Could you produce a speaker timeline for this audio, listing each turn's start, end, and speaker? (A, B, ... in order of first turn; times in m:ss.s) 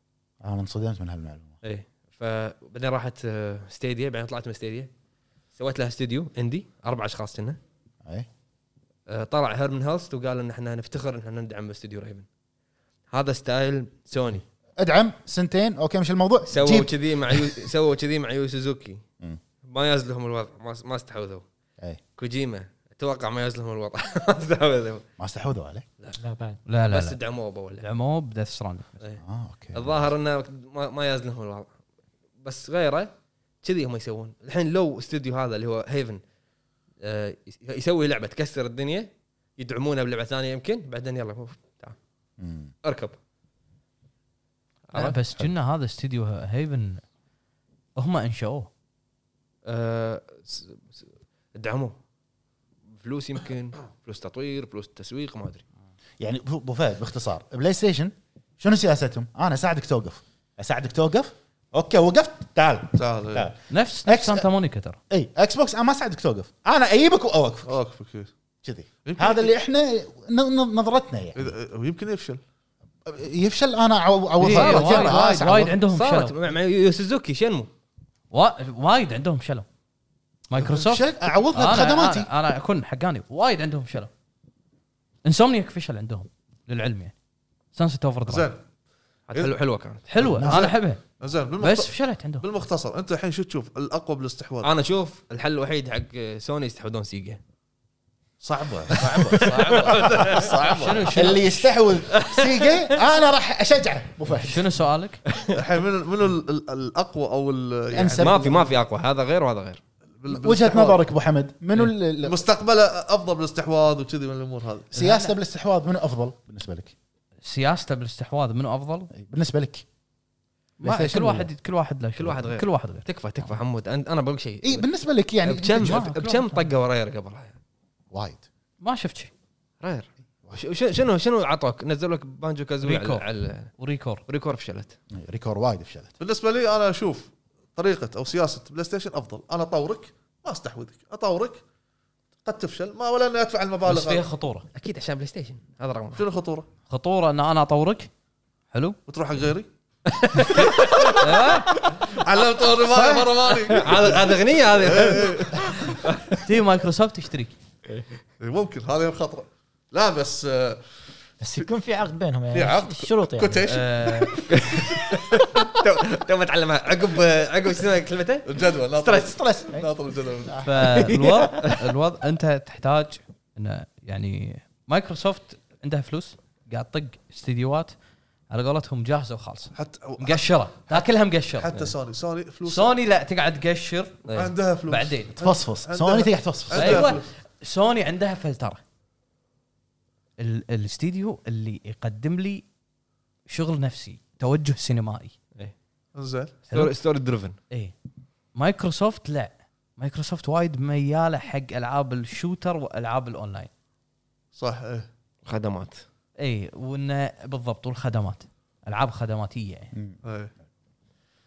0:00.4-0:01.5 A
0:01.6-0:04.9 B
0:05.6-0:07.6 B
0:09.1-0:12.2 B
0:13.1-0:14.4 B
0:14.8-0:17.6 A
0:16.5-0:19.0 B
0:19.6-0:21.4 B
0:22.2-0:25.0 B
0:25.2-0:25.8 A
0:26.2-0:26.6 C
0:26.6-0:27.2 D
0:26.9-0:27.8 B
0:27.8-0:29.0 D
0:29.2-0:30.1 A
0:29.7-0:31.7 B
0:32.4-0:33.1 B
0:33.6-0:36.2 B
0:37.0-0:42.0 B
0:42.4-0:42.7 A
0:42.8-0:43.2 B
0:44.9-0:47.0 D
0:48.0-0:48.7 D
0:49.6-0:51.9 B
0:52.9-0:55.6 B
0:56.2-1:04.5 A
1:02.9-1:03.5 E
1:03.7-1:05.0 D
1:05.1-1:07.7 A
1:07.6-1:08.3 E
1:08.6-1:11.5 A
1:09.0-1:09.5 E
1:11.4-1:12.4 E
1:13.0-1:15.8 A
1:14.4-1:16.3 D
1:14.5-1:15.2 B
1:15.9-1:17.7 B
1:18.3-1:19.6 D
1:20.5-1:24.1 D
1:20.5-1:22.3 A
1:25.2-1:27.1 D
1:27.7-1:28.5 D
1:28.3-1:28.6 E
1:29.3-1:30.1 B
1:30.1-1:31.0 D
1:30.2-1:34.7 E
1:31.6-1:32.4 D
1:34.6-1:37.4 B
1:38.4-1:41.2 E
1:39.0-1:40.7 B
1:40.7-1:41.6 D
1:41.1-1:44.7 A
1:42.1-1:42.9 B
1:44.4-1:45.2 D
1:45.3-1:45.6 B
1:45.5-1:48.7 E
1:47.9-1:48.5 A
1:48.2-1:49.8 B
1:50.2-1:51.0 E
1:50.3-1:52.4 A
1:51.8-1:54.9 E
1:54.9-1:56.9 A
1:54.9-1:55.3 D
1:57.4-1:59.1 D
1:59.1-1:59.8 A
2:00.8-2:03.5 D
2:00.8-2:01.5 A
2:02.2-2:04.8 B
2:04.6-2:06.0 A
2:05.4-2:07.6 B
2:05.8-2:06.6 D
2:08.1-2:08.4 A
2:08.8-2:09.3 D
2:09.8-2:13.7 B
2:12.8-2:13.2 D
2:13.8-2:14.2 D
2:14.3-2:14.9 B
2:15.1-2:16.1 A
2:16.2-2:21.6 E
2:22.4-2:24.2 E
2:23.8-2:24.7 D
2:24.7-2:26.2 B
2:26.2-2:26.7 E
2:26.9-2:28.1 D
2:28.7-2:29.0 D
2:29.1-2:29.7 E
2:30.0-2:31.9 B
2:30.5-2:31.4 E
2:31.2-2:31.7 D
2:31.9-2:35.9 E
2:32.9-2:36.4 B
2:36.4-2:37.5 D
2:38.4-2:40.9 E
2:41.4-2:43.6 C
2:42.5-2:44.9 E
2:43.6-2:44.4 D
2:44.5-2:48.5 B
2:48.4-2:51.0 E
2:49.0-2:49.8 A
2:50.5-2:51.0 A
2:50.6-2:57.9 D
2:51.5-2:51.8 B
2:58.5-3:01.8 D
2:59.7-3:02.9 E
3:02.6-3:04.3 D
3:04.2-3:04.5 B
3:04.3-3:07.3 E
3:04.9-3:05.3 D
3:05.4-3:07.1 A
3:06.7-3:08.8 D
3:10.4-3:12.6 D
3:13.5-3:15.3 D
3:16.1-3:16.6 E
3:16.7-3:17.6 B
3:18.5-3:23.7 D
3:24.5-3:25.1 E
3:25.4-3:26.0 B
3:26.4-3:29.9 D
3:30.2-3:30.5 E